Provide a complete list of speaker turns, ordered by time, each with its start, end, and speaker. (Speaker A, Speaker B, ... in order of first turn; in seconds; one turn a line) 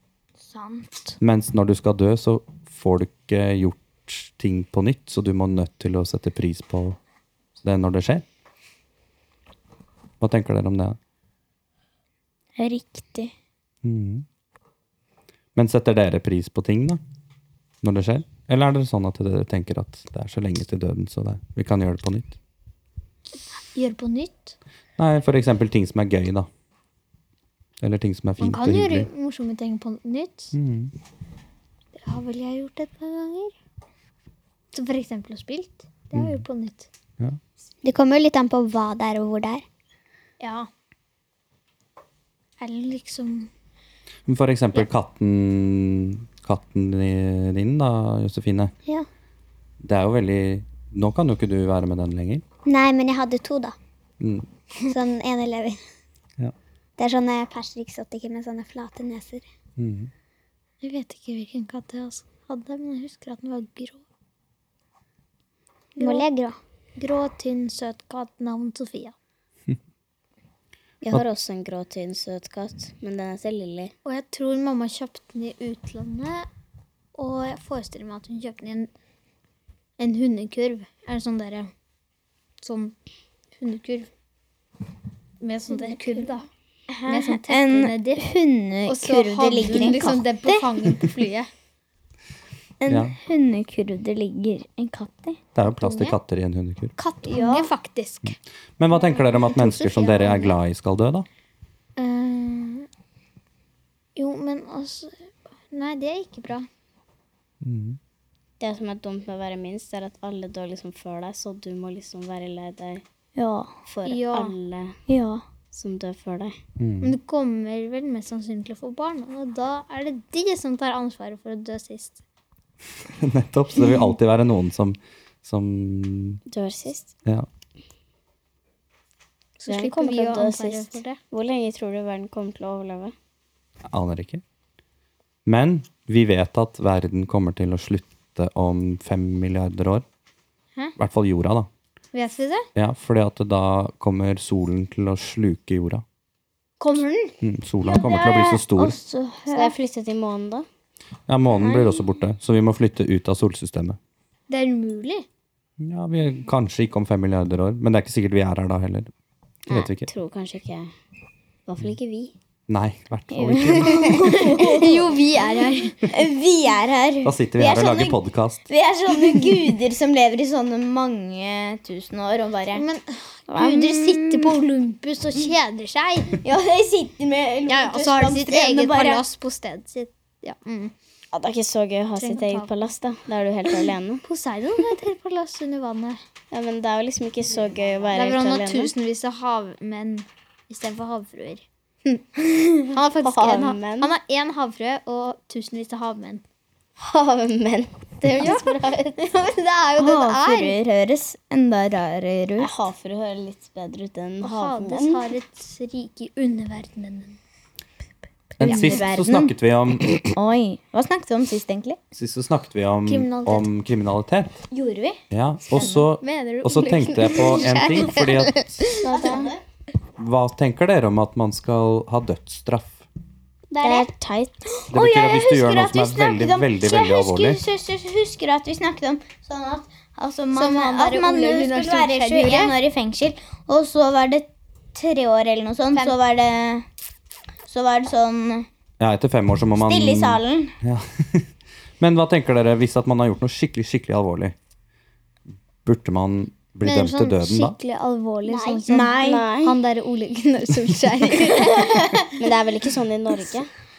Speaker A: 0.4-1.1
Speaker B: 1.2-7.0
Speaker B: 7.6-8.2
Speaker B: 10.2-11.0
Speaker A: 12.6-13.3
Speaker B: 13.8-14.2
Speaker B: 15.6-17.0
Speaker B: 17.8-22.3
Speaker C: 23.7-24.5
Speaker B: 25.0-26.5
Speaker B: 27.8-29.1
Speaker C: 28.4-30.5
Speaker B: 30.5-30.9
Speaker C: 31.9-33.5
Speaker C: 34.7-36.9
Speaker B: 36.1-36.4
Speaker D: 37.8-39.6
Speaker C: 40.4-40.7
Speaker C: 42.6-43.5
Speaker B: 44.3-48.7
Speaker B: 49.8-52.4
Speaker D: 52.6-53.7
Speaker B: 54.2-54.5
Speaker D: 54.8-55.8
Speaker D: 57.0-59.5
Speaker B: 59.8-60.1
Speaker C: 60.8-64.0
Speaker C: 66.0-66.2
Speaker D: 66.0-66.6
Speaker C: 67.0-69.1
Speaker E: 71.0-73.9
Speaker C: 74.0-76.5
Speaker C: 77.1-78.9
Speaker C: 80.0-81.7
Speaker C: 82.6-82.9
Speaker C: 83.5-84.1
Speaker C: 85.4-86.5
Speaker A: 86.9-90.9
Speaker C: 87.1-88.2
Speaker C: 88.9-91.5
Speaker A: 92.8-95.4
Speaker B: 92.9-93.2
Speaker B: 95.5-96.9
Speaker C: 95.7-96.2
Speaker C: 97.0-98.4
Speaker A: 97.2-97.7
Speaker B: 98.2-101.3
Speaker C: 98.9-100.5
Speaker C: 102.0-102.9
Speaker C: 104.1-105.2
Speaker C: 105.7-106.7
Speaker B: 107.6-108.0
Speaker E: 108.6-113.0
Speaker A: 113.3-113.7
Speaker E: 113.9-115.0
Speaker C: 114.0-114.5
Speaker A: 115.1-115.4
Speaker E: 115.7-116.5
Speaker B: 116.8-117.2
Speaker C: 117.0-122.2
Speaker B: 123.0-126.4
Speaker E: 126.5-127.1
Speaker C: 129.6-131.2
Speaker E: 129.7-133.1
Speaker B: 133.8-134.4
Speaker B: 135.4-140.0
Speaker B: 141.0-141.7
Speaker C: 142.1-142.7
Speaker B: 142.8-146.0
Speaker C: 146.8-147.2
Speaker B: 147.4-149.0
Speaker A: 147.8-149.7
Speaker E: 149.5-150.7
Speaker B: 151.3-154.0
Speaker A: 151.6-152.0
Speaker C: 154.5-155.2
Speaker B: 155.8-159.1
Speaker E: 159.7-160.9
Speaker B: 159.7-160.1
Speaker E: 161.7-162.3
Speaker B: 162.7-164.2
Speaker A: 163.3-165.1
Speaker E: 163.8-164.4
Speaker C: 164.4-166.0
Speaker A: 166.1-172.8
Speaker B: 167.2-168.6
Speaker C: 172.8-176.4
Speaker A: 173.5-174.6
Speaker A: 176.4-179.2
Speaker C: 177.7-180.9
Speaker E: 181.3-184.2
Speaker C: 182.2-182.7
Speaker C: 184.2-186.2
Speaker E: 186.5-188.9
Speaker C: 188.1-191.6
Speaker C: 192.9-196.4
Speaker E: 193.2-194.1
Speaker E: 197.0-199.2
Speaker C: 198.2-200.8
Speaker A: 200.0-202.8
Speaker E: 202.6-205.3
Speaker C: 204.4-207.3
Speaker B: 208.6-210.2
Speaker A: 208.6-209.5
Speaker C: 208.6-209.0
Speaker A: 210.2-212.0
Speaker B: 212.1-214.6
Speaker C: 213.1-213.6
Speaker A: 214.7-215.2
Speaker B: 215.3-218.8
Speaker A: 215.7-216.0
Speaker C: 215.8-219.0
Speaker E: 219.0-219.5
Speaker A: 219.0-219.6
Speaker B: 220.2-223.0
Speaker D: 223.7-224.1
Speaker E: 223.8-224.9
Speaker A: 224.9-236.9
Speaker B: 224.9-227.6
Speaker C: 230.5-232.8
Speaker A: 237.7-238.7
Speaker B: 239.0-244.5
Speaker A: 239.8-240.8
Speaker B: 245.8-247.8
Speaker C: 246.8-252.3
Speaker D: 248.4-249.1
Speaker A: 248.9-249.5
Speaker E: 249.2-249.8
Speaker E: 252.4-253.7